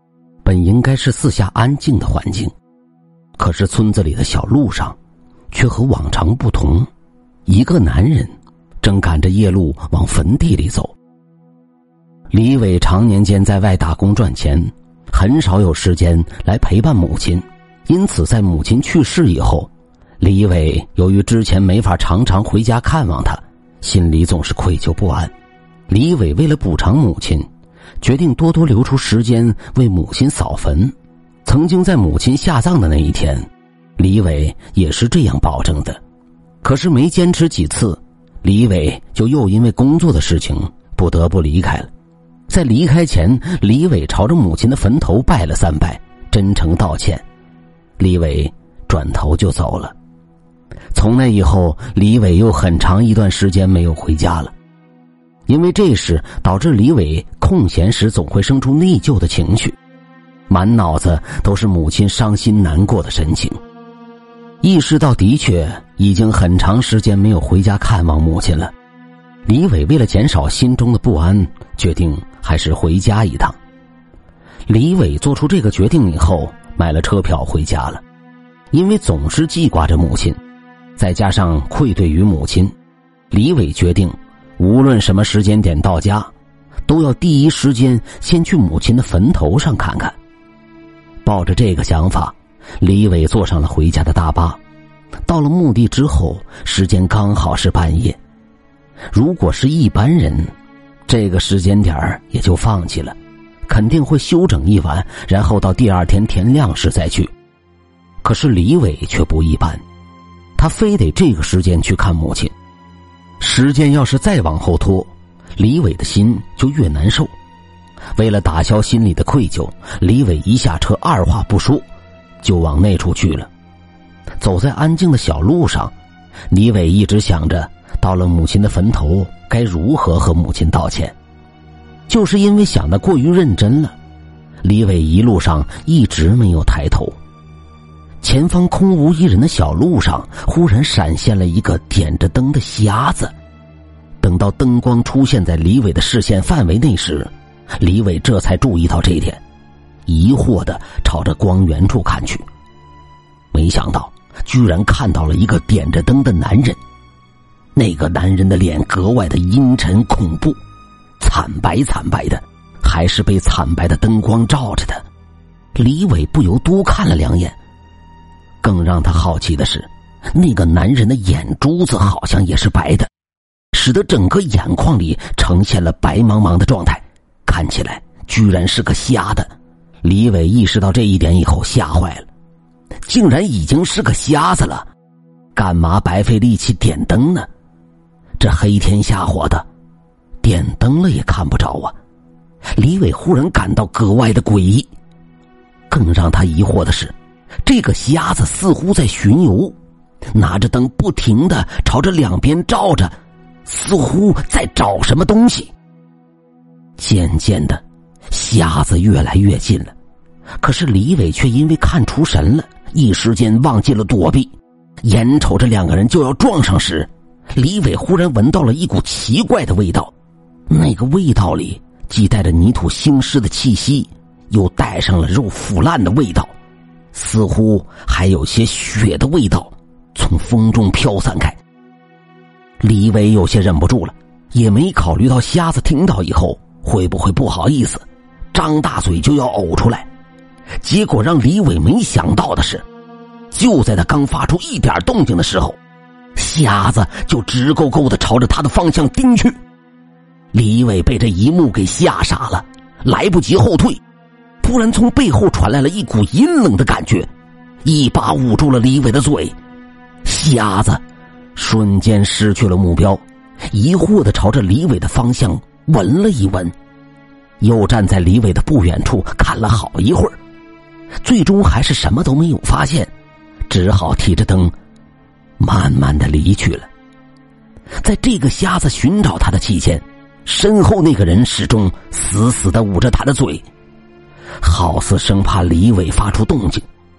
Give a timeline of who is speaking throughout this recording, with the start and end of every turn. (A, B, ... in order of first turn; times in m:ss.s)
0:00.4-0:02.5 A
0:03.4-0:05.0 A
0:05.5-0:06.9 A
0:07.4-0:10.9 A
0:12.3-0:25.3 A
0:25.9-0:27.5 A
0:28.0-0:30.9 A
0:31.4-0:36.0 A
0:36.6-0:41.9 A
0:42.5-0:47.2 A
0:48.0-0:49.9 A
0:50.9-0:54.5 A
0:55.4-0:59.8 A
1:00.5-1:03.6 A
1:04.6-1:08.7 A
1:09.4-1:13.6 A
1:14.7-1:18.0 A
1:18.7-1:20.4 A
1:21.0-1:22.7 A
1:23.3-1:26.3 A
1:26.8-1:30.1 A
1:31.2-1:34.6 A
1:35.2-1:38.2 A
1:39.1-1:40.5 A
1:41.0-1:43.2 A
1:43.7-1:47.3 A
1:48.2-1:49.8 A
1:50.6-1:52.5 A
1:53.4-1:57.3 A
1:58.2-2:01.8 A
2:02.4-2:03.5 A
2:04.4-2:05.9 A
2:06.5-2:11.1 A
2:12.1-2:14.0 A
2:14.6-2:17.2 A
2:18.2-2:23.3 A
2:24.2-2:29.4 A
2:30.1-2:32.4 A
2:33.5-2:36.8 A
2:37.7-2:40.6 A
2:41.2-2:45.0 A
2:45.7-2:47.6 A
2:48.6-2:53.1 A
2:53.7-2:59.5 A
3:00.0-3:02.3 A
3:03.0-3:04.9 A
3:05.6-3:07.5 A
3:08.4-3:09.6 A
3:10.4-3:11.9 A
3:12.8-3:14.9 A
3:15.9-3:17.1 A
3:17.6-3:19.8 A
3:20.3-3:23.1 A
3:23.6-3:25.7 A
3:27.0-3:29.9 A
3:30.6-3:40.1 A
3:40.7-3:46.5 A
3:47.1-3:51.6 A
3:52.8-4:00.1 A
4:00.8-4:02.8 A
4:03.5-4:05.8 A
4:06.3-4:09.6 A
4:10.5-4:14.0 A
4:14.6-4:17.3 A
4:17.8-4:19.6 A
4:20.2-4:21.0 A
4:21.6-4:26.7 A
4:27.6-4:30.4 A
4:31.2-4:33.1 A
4:33.7-4:34.7 A
4:35.6-4:36.9 A
4:38.0-4:43.6 A
4:44.6-4:46.8 A